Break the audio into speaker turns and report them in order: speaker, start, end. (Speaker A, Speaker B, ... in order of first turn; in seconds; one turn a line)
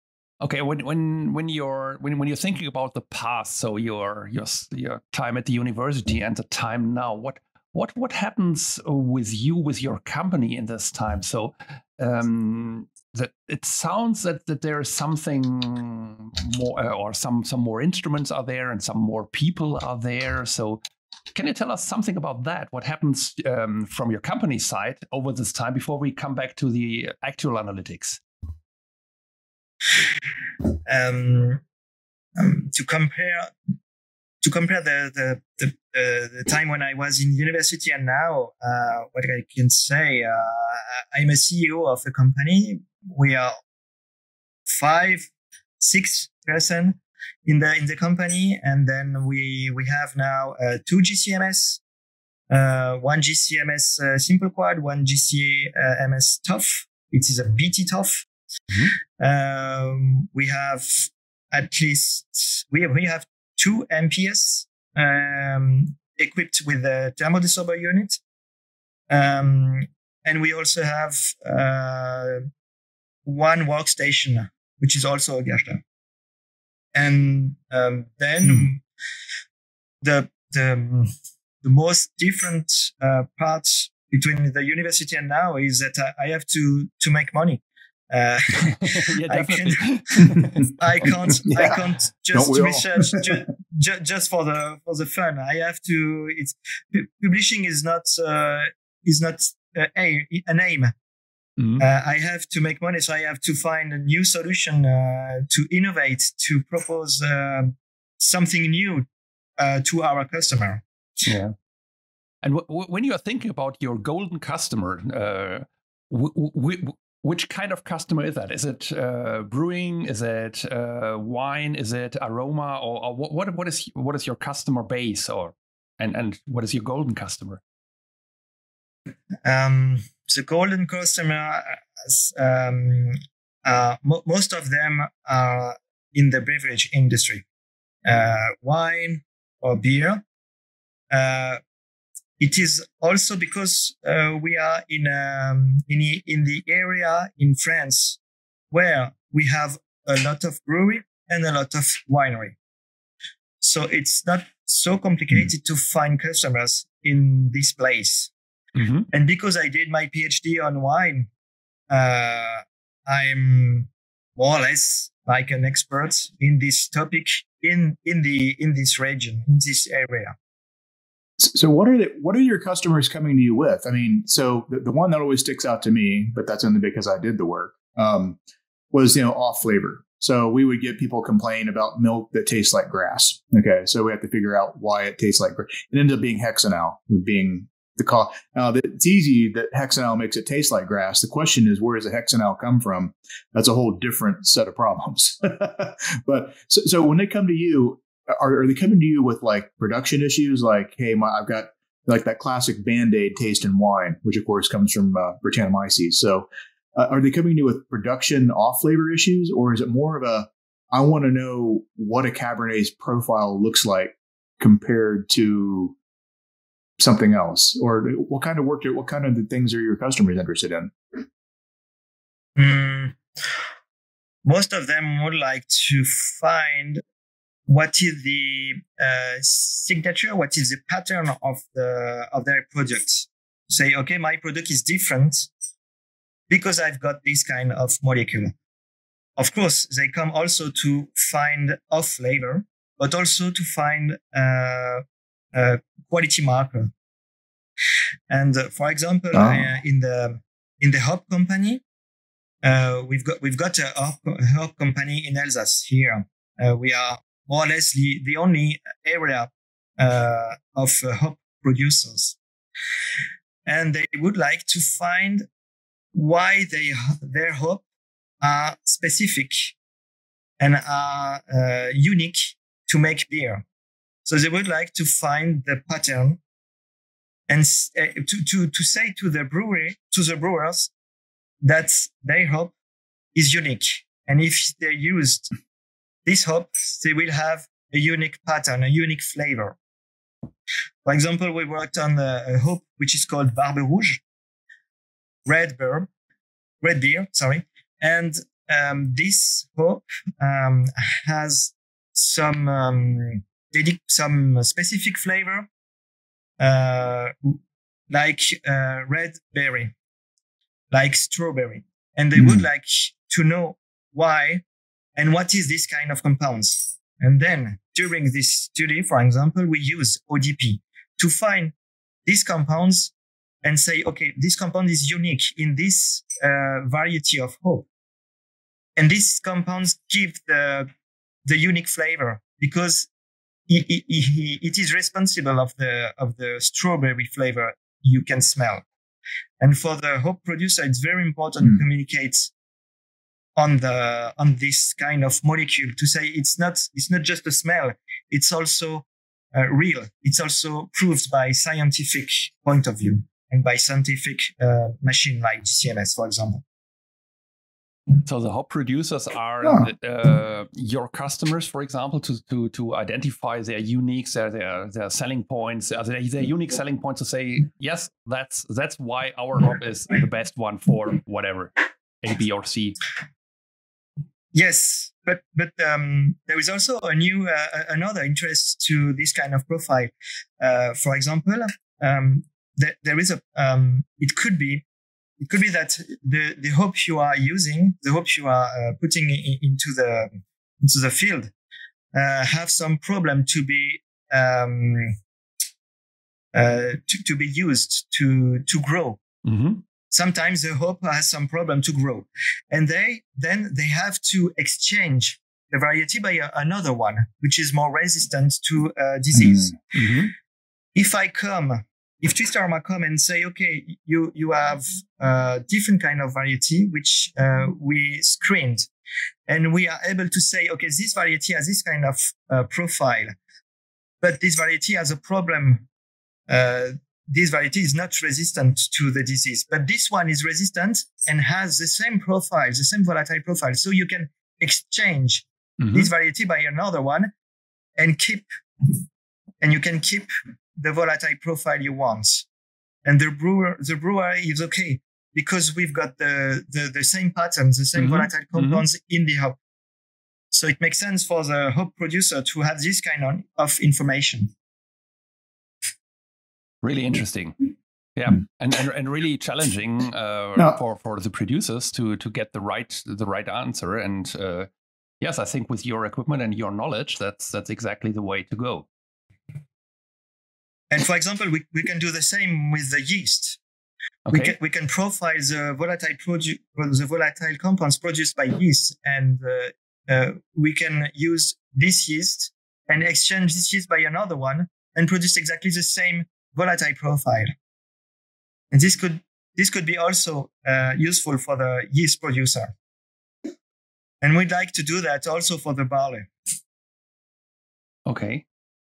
Speaker A: 0.4-20.8
Speaker A: 21.3-28.2
Speaker B: 30.9-31.6
Speaker B: 32.4-33.5
Speaker B: 34.4-43.6
Speaker B: 44.7-51.8
Speaker B: 52.5-58.3
Speaker B: 59.2-68.2
Speaker B: 69.1-72.4
Speaker B: 73.2-75.8
Speaker B: 76.9-78.8
Speaker B: 80.0-81.1
Speaker B: 81.6-100.9
Speaker A: 88.8-90.7
Speaker C: 91.4-93.4
Speaker A: 101.6-101.8
Speaker B: 101.8-109.1
Speaker B: 109.6-110.8
Speaker A: 111.2-111.5
Speaker A: 112.4-127.6
Speaker B: 129.4-137.4
Speaker B: 138.0-140.2
Speaker B: 141.1-141.6
Speaker B: 142.4-148.2
Speaker B: 148.7-152.6
Speaker B: 153.6-158.3
Speaker A: 158.7-159.1
Speaker B: 159.1-161.3
Speaker B: 161.9-170.3
Speaker C: 171.4-178.4
Speaker C: 178.9-215.9
Speaker C: 217.0-220.9
Speaker B: 222.6-223.2
Speaker B: 224.4-227.0
Speaker B: 227.7-235.5
Speaker B: 236.5-238.5
Speaker B: 239.4-246.9
Speaker B: 248.3-251.8
Speaker C: 249.3-249.6
Speaker B: 252.6-262.4
Speaker B: 263.6-265.4
Speaker B: 266.1-267.8
Speaker B: 268.4-269.7
Speaker B: 270.6-273.6
Speaker B: 274.2-276.4
Speaker B: 277.5-280.9
Speaker B: 281.6-282.7
Speaker B: 283.3-285.5
Speaker B: 286.2-289.8
Speaker B: 291.0-294.2
Speaker B: 295.4-296.1
Speaker B: 296.8-305.7
Speaker B: 306.6-307.6
Speaker B: 308.1-309.9
Speaker B: 310.9-314.6
Speaker B: 315.1-321.7
Speaker B: 322.2-323.1
Speaker B: 323.6-327.9
Speaker B: 328.9-330.9
Speaker B: 331.4-333.1
Speaker B: 333.7-338.8
Speaker B: 339.6-342.5
Speaker B: 343.6-356.6
Speaker A: 358.2-373.0
Speaker C: 359.6-359.9
Speaker B: 374.5-384.8
Speaker B: 385.4-391.5
Speaker B: 392.1-395.1
Speaker B: 396.5-399.2
Speaker A: 399.4-399.8
Speaker B: 400.1-409.8
Speaker A: 409.9-410.3
Speaker B: 410.9-418.9
Speaker B: 419.5-423.4
Speaker B: 424.2-425.9
Speaker B: 426.5-437.3
Speaker A: 435.8-436.1
Speaker B: 438.0-439.0
Speaker B: 439.6-442.4
Speaker B: 443.0-449.6
Speaker A: 447.9-448.8
Speaker B: 450.5-454.5
Speaker A: 456.8-464.7
Speaker A: 465.2-468.9
Speaker B: 470.9-473.6
Speaker A: 474.2-474.5
Speaker B: 474.3-487.5
Speaker B: 488.7-492.7
Speaker B: 494.2-496.3
Speaker A: 498.1-498.4